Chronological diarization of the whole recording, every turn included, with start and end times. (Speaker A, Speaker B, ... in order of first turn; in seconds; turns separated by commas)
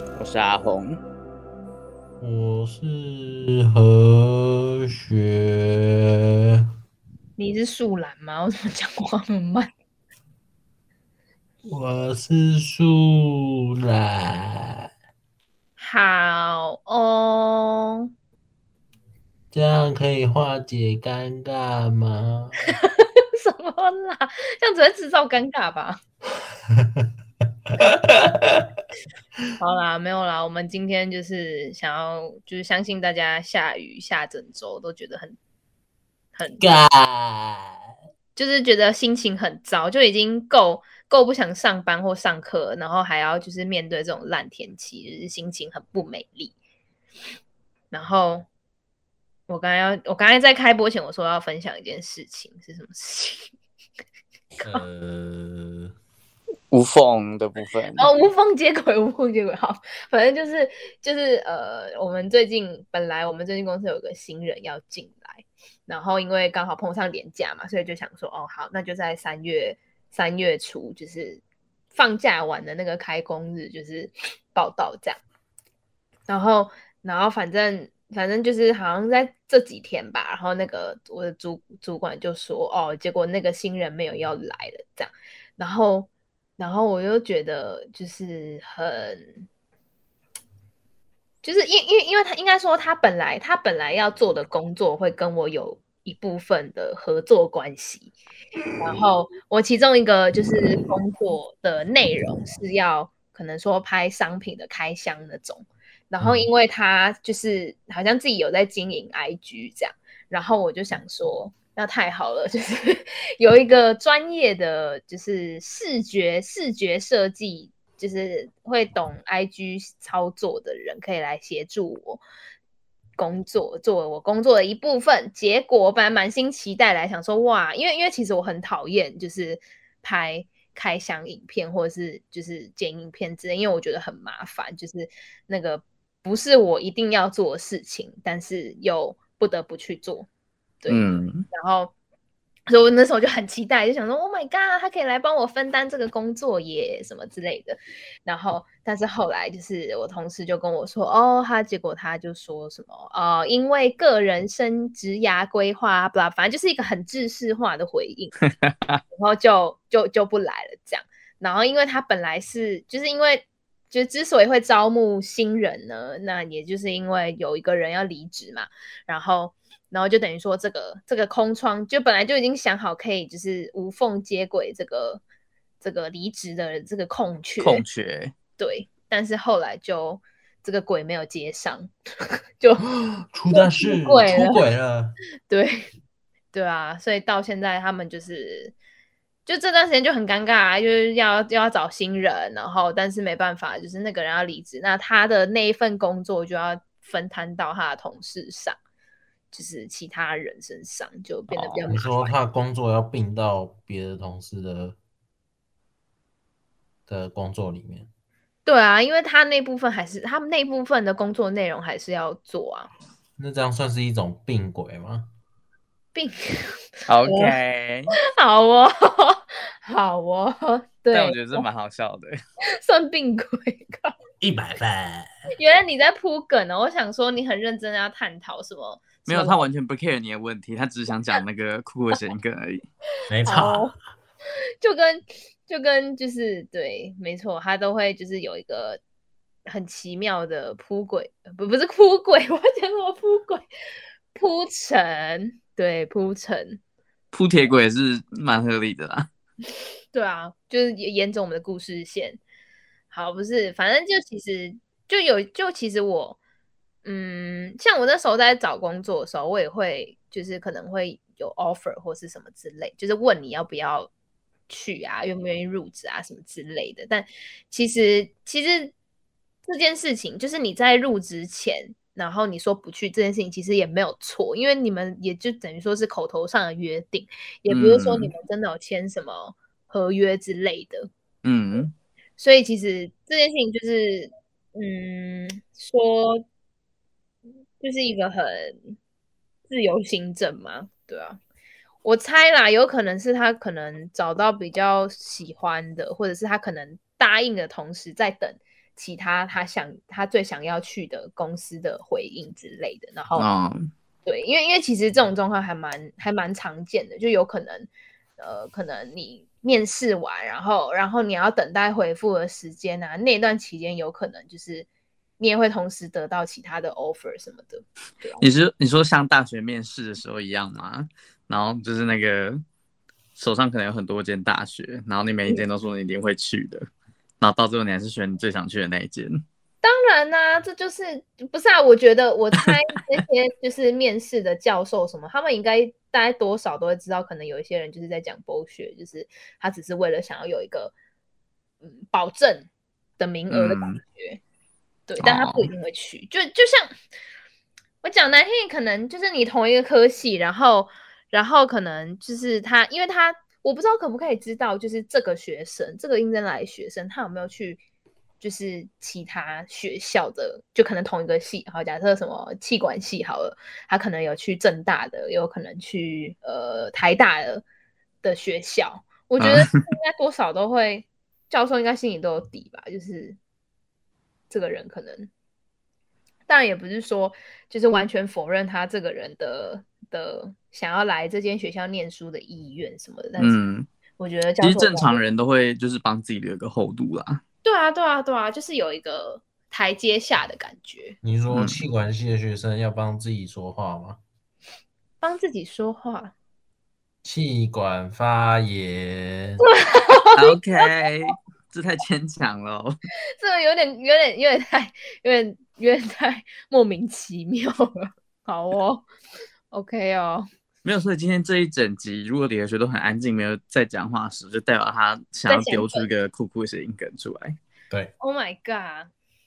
Speaker A: 0.2-1.0, Speaker B: 2.2-6.6, Speaker C: 7.4-9.7, Speaker B: 11.6-14.8, Speaker C: 15.8-18.0, Speaker B: 19.5-22.7, Speaker C: 22.7-26.0, Speaker B: 27.8-28.6, Speaker C: 29.6-35.4, Speaker C: 36.4-36.8, Speaker B: 36.6-37.7, Speaker C: 38.4-46.5, Speaker C: 47.9-48.5, Speaker C: 49.5-53.5, Speaker B: 54.6-55.9, Speaker A: 56.7-58.1, Speaker C: 58.0-71.4, Speaker C: 71.9-75.2, Speaker C: 76.3-89.4, Speaker C: 91.4-98.1, Speaker C: 98.8-122.2, Speaker B: 106.2-106.5, Speaker C: 123.2-140.3, Speaker C: 140.8-141.9, Speaker A: 140.9-141.4, Speaker C: 142.7-158.4, Speaker A: 158.4-159.0, Speaker C: 159.1-175.2, Speaker C: 175.8-177.8, Speaker A: 177.6-178.3, Speaker C: 178.6-182.8, Speaker B: 182.8-185.2, Speaker C: 183.5-184.6, Speaker C: 185.5-185.8, Speaker C: 186.5-188.7, Speaker C: 189.4-198.8, Speaker C: 199.5-202.3, Speaker A: 201.5-201.8, Speaker B: 201.9-204.9, Speaker B: 207.1-208.1, Speaker C: 208.7-212.9, Speaker B: 213.4-215.3, Speaker C: 216.1-217.5, Speaker A: 217.1-218.1, Speaker C: 218.3-221.7, Speaker A: 221.1-222.4, Speaker C: 222.8-224.2, Speaker B: 224.4-225.3, Speaker C: 225.5-229.6, Speaker A: 229.2-232.8, Speaker B: 233.3-233.9, Speaker C: 233.4-233.9, Speaker C: 234.8-239.0, Speaker C: 239.7-243.7, Speaker C: 244.3-246.8, Speaker A: 247.3-249.3, Speaker C: 250.1-252.4, Speaker C: 253.1-256.4, Speaker C: 257.0-264.1, Speaker C: 264.7-268.9, Speaker C: 269.6-281.1, Speaker A: 277.7-278.3, Speaker A: 281.4-281.9, Speaker C: 282.4-286.4, Speaker C: 287.8-288.9, Speaker C: 289.7-291.4, Speaker C: 292.0-303.5, Speaker A: 303.4-303.9, Speaker C: 304.2-314.9, Speaker C: 315.4-318.4, Speaker A: 318.4-322.6, Speaker A: 323.4-326.9, Speaker A: 327.4-329.4, Speaker C: 329.8-340.9, Speaker C: 341.8-344.4, Speaker A: 343.5-344.0, Speaker C: 345.1-346.9, Speaker A: 345.2-345.7, Speaker C: 348.0-357.8, Speaker C: 358.4-367.6, Speaker C: 368.2-373.4, Speaker A: 369.4-369.8, Speaker C: 374.5-375.3, Speaker C: 376.5-383.6, Speaker A: 383.4-383.9, Speaker C: 384.2-385.2, Speaker A: 384.6-387.4, Speaker C: 387.6-391.2, Speaker B: 391.2-394.2, Speaker A: 391.5-391.8, Speaker C: 395.2-396.3, Speaker B: 397.2-399.6, Speaker C: 399.6-400.8, Speaker A: 400.4-403.0, Speaker C: 403.4-409.1, Speaker C: 409.7-410.4, Speaker A: 410.8-417.6, Speaker C: 415.5-416.1, Speaker C: 418.2-419.1